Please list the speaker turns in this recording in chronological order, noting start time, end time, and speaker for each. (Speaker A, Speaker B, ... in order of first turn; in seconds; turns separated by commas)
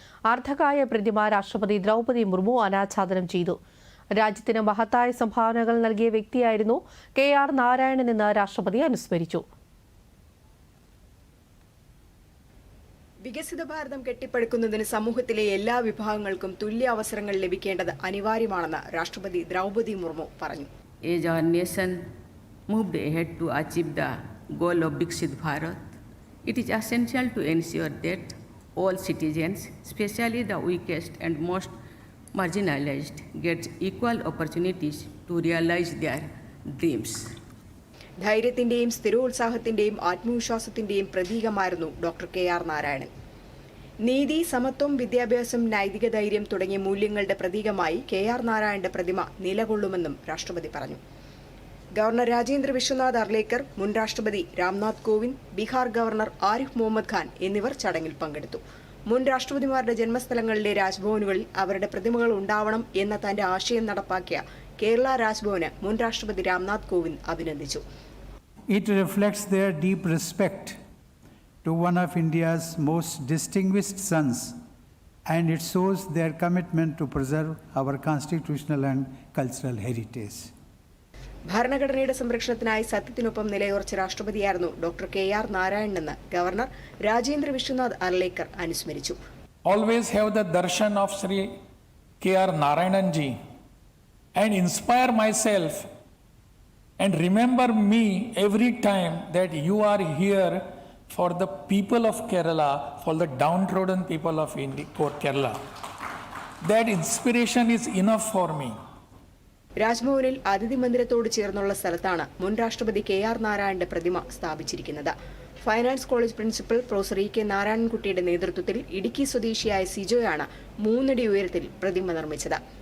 Speaker A: 0.3-3.6, Speaker A: 4.2-9.4, Speaker B: 13.2-20.7, Speaker C: 21.0-22.0, Speaker C: 22.7-31.7, Speaker C: 32.3-37.4, Speaker B: 38.2-43.1, Speaker B: 44.0-51.0, Speaker B: 52.0-67.8, Speaker D: 68.7-70.8, Speaker D: 71.6-74.5, Speaker D: 75.3-80.5, Speaker B: 81.5-89.2, Speaker E: 89.7-91.5, Speaker E: 92.2-93.4, Speaker E: 94.3-95.9, Speaker E: 97.0-105.6, Speaker E: 106.6-108.8, Speaker B: 109.8-122.6